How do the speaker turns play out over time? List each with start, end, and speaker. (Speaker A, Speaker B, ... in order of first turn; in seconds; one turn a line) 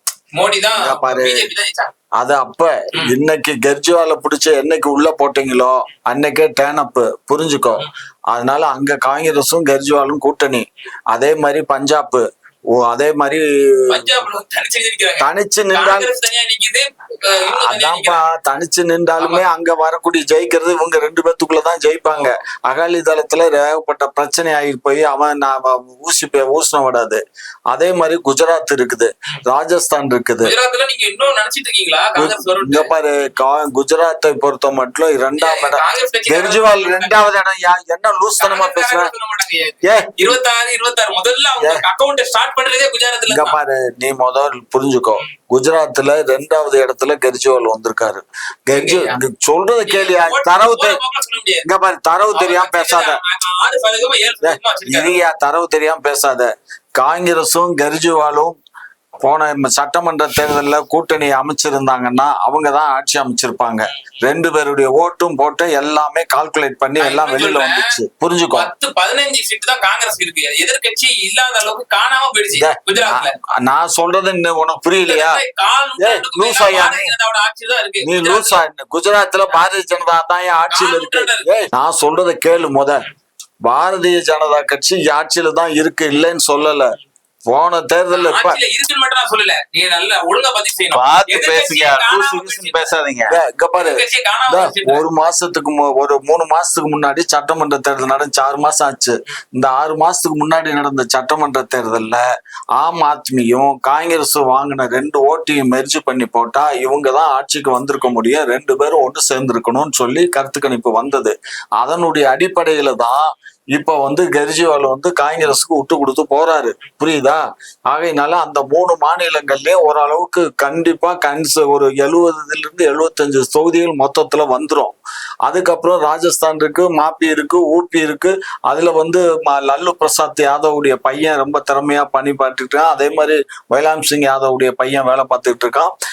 Speaker A: 0.3-1.9
Speaker B: 0.8-1.5
Speaker B: 2.2-14.2
Speaker A: 13.9-18.2
Speaker B: 15.2-16.1
Speaker B: 17.5-30.5
Speaker A: 19.2-19.4
Speaker A: 30.4-32.9
Speaker B: 32.1-39.1
Speaker A: 35.4-37.2
Speaker A: 38.4-43.5
Speaker B: 41.6-41.8
Speaker B: 43.3-51.0
Speaker A: 48.7-49.2
Speaker A: 49.8-51.6
Speaker B: 51.6-53.2
Speaker A: 52.3-55.2
Speaker B: 54.4-58.6
Speaker B: 59.2-68.7
Speaker A: 67.0-67.9
Speaker A: 68.5-73.3
Speaker B: 72.5-75.4
Speaker A: 75.0-78.6
Speaker B: 76.0-77.1
Speaker B: 78.0-83.0
Speaker A: 80.7-81.7
Speaker B: 83.6-86.9
Speaker B: 87.5-88.6
Speaker A: 88.1-92.9
Speaker C: 90.9-93.3
Speaker B: 93.3-102.2
Speaker A: 93.7-95.0
Speaker B: 102.8-124.9
Speaker B: 125.4-135.9